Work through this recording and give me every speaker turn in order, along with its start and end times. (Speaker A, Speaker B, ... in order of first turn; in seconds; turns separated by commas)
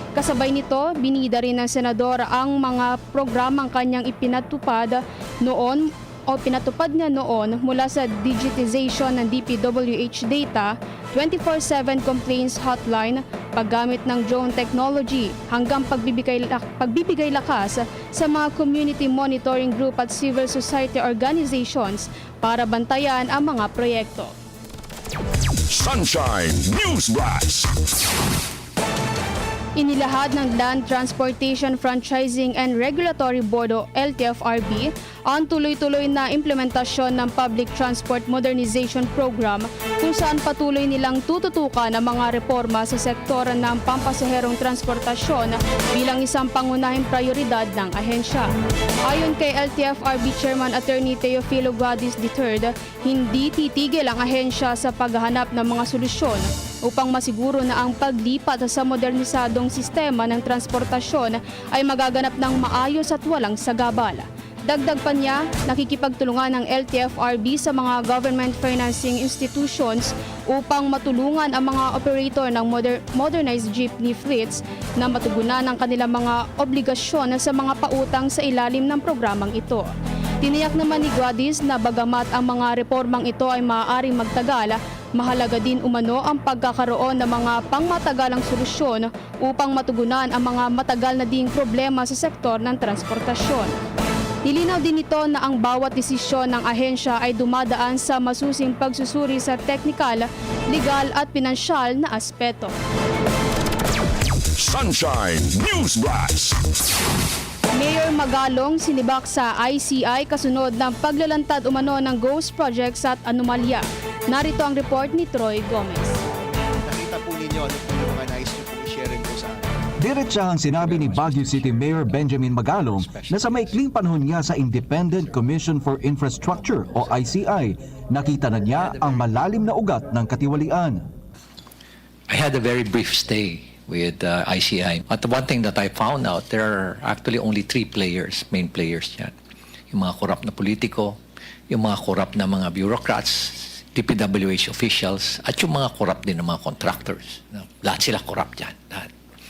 Speaker A: 0.1-24.3, Speaker B: 25.7-27.7, Speaker A: 29.8-48.5, Speaker A: 49.1-79.9, Speaker A: 80.4-93.7, Speaker A: 94.5-102.7, Speaker B: 104.5-106.6, Speaker A: 107.8-116.2, Speaker C: 116.8-119.7, Speaker D: 120.0-131.0, Speaker E: 132.3-139.3, Speaker E: 139.9-141.2, Speaker E: 141.7-149.1